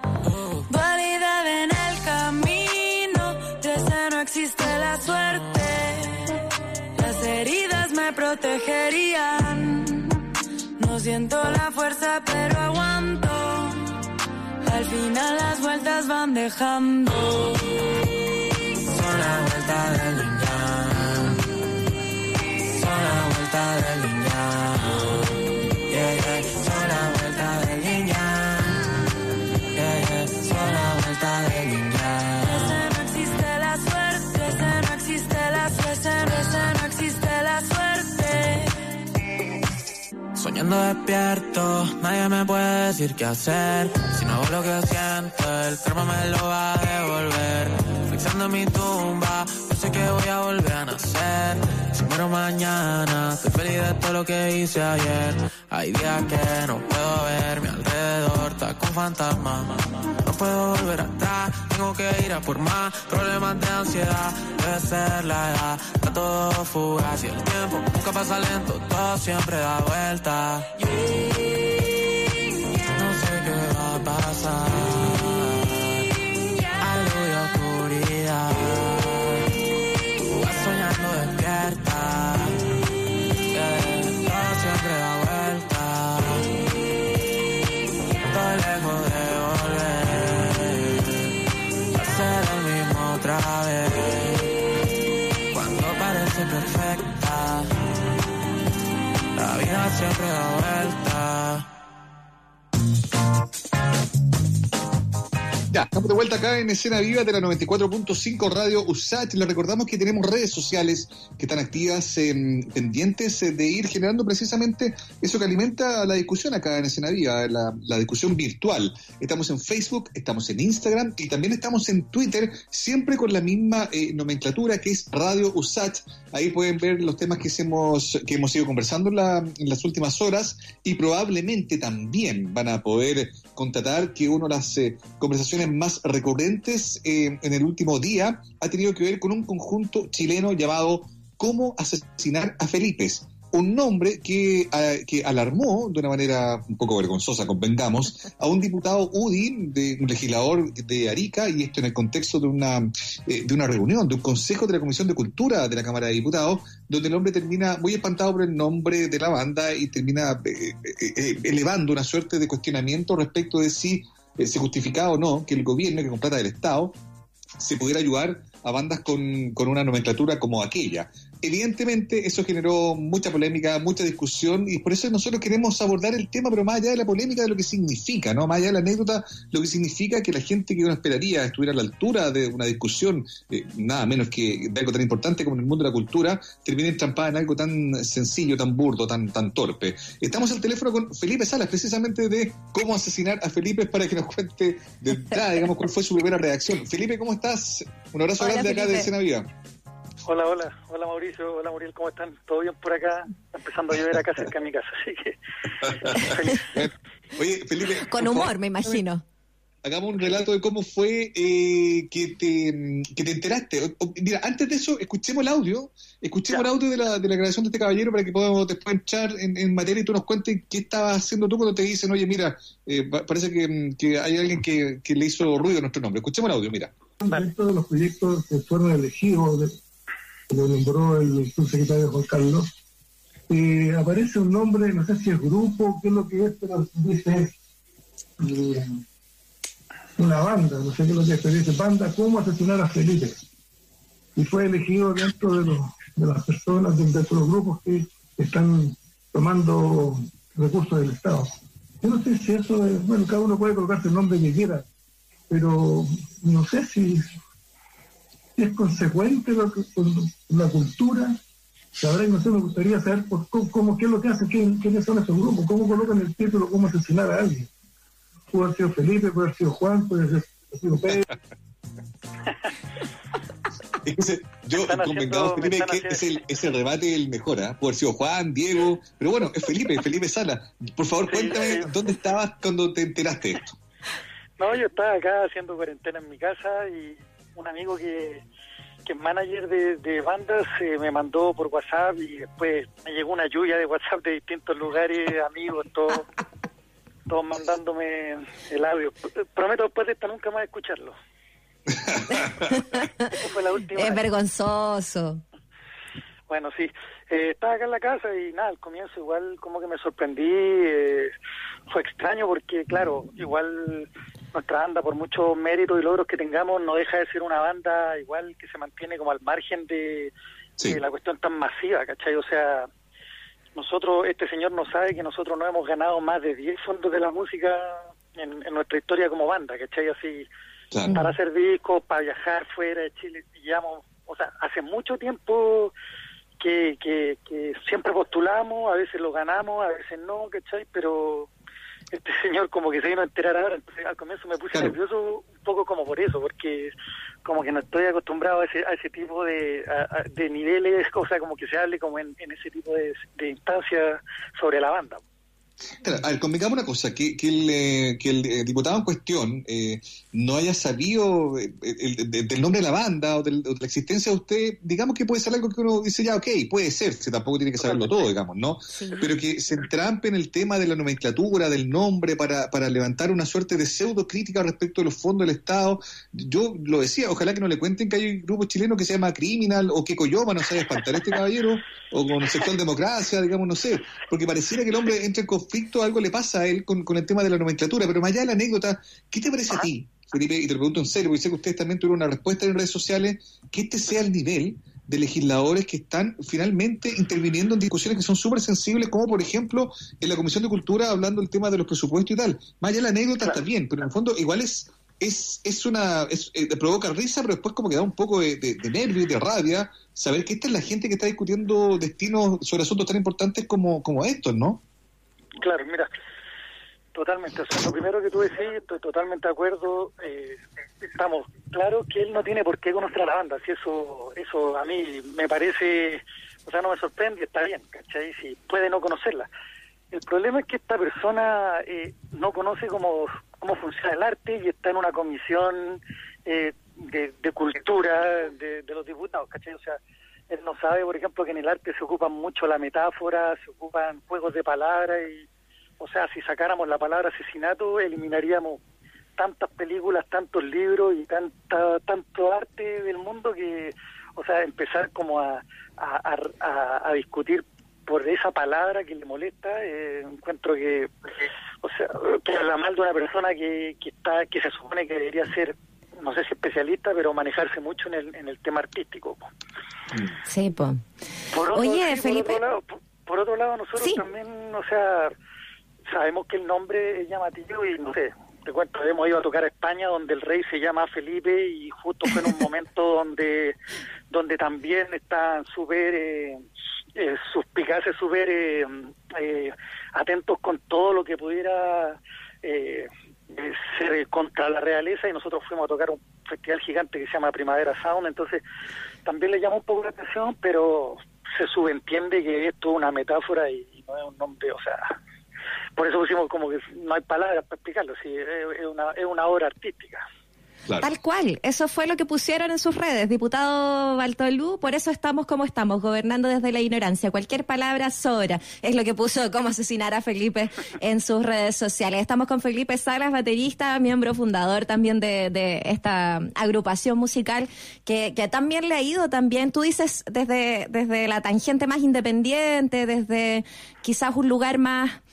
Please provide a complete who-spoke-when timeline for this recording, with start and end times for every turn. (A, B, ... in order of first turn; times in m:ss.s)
0:00.7-0:06.4 A
0:07.0-0:10.2 A
0:10.8-0:13.9 A
0:14.6-0:17.6 A
0:18.8-0:21.4 B
0:22.7-0:25.3 B
0:25.9-0:28.8 B
0:29.7-0:32.8 B
0:32.4-0:38.7 A
0:40.4-1:10.9 B
1:12.9-1:16.1 B
1:16.8-1:19.4 B
1:20.3-1:22.7 B
1:23.4-1:26.5 B
1:28.2-1:31.3 B
1:31.9-1:34.5 B
1:35.5-1:37.7 B
1:39.3-1:41.6 B
1:45.7-2:47.0 C
2:47.6-3:19.5 C
3:18.4-3:19.1 D
3:20.2-3:25.4 E
3:26.1-3:26.6 E
3:26.7-3:28.5 C
3:28.1-3:29.2 D
3:29.8-3:46.9 C
3:47.2-3:49.8 F
3:50.5-3:52.7 F
3:53.5-3:57.5 F
3:58.4-3:59.0 F
4:00.2-4:03.4 F
4:04.4-4:14.8 F
4:15.5-4:17.3 F
4:18.6-4:21.4 F
4:22.0-4:27.7 F
4:28.5-4:31.2 F
4:34.0-4:43.7 C
4:34.7-4:36.4 E
4:41.3-4:41.9 E
4:44.6-4:48.4 E
4:49.0-4:56.2 E
4:57.3-5:01.2 E
5:02.0-5:02.4 C
5:02.3-5:03.3 D
5:03.4-5:04.2 E
5:04.0-5:05.4 D
5:06.5-5:11.3 E
5:11.9-5:20.3 E
5:20.8-5:22.9 E
5:23.7-5:30.5 E
5:30.9-5:31.2 C
5:31.1-5:35.9 E
5:36.6-5:41.5 E
5:42.1-5:46.9 E
5:47.4-5:55.2 E
5:55.9-6:54.8 C
6:07.8-6:08.1 E
6:08.9-6:09.3 D
6:55.6-6:56.1 E
6:57.1-7:09.5 E
7:10.1-7:20.0 E
7:20.5-7:25.4 E
7:26.0-7:28.8 E
7:29.4-7:41.1 E
7:41.8-7:49.5 E
7:50.4-7:51.0 D
7:51.5-7:55.3 E
7:51.7-7:52.6 D
7:54.0-7:54.2 D
7:56.1-8:03.8 E
8:04.3-8:06.6 E
8:07.2-8:18.6 E
8:19.2-8:25.1 E
8:26.0-8:30.2 E
8:31.0-8:55.2 D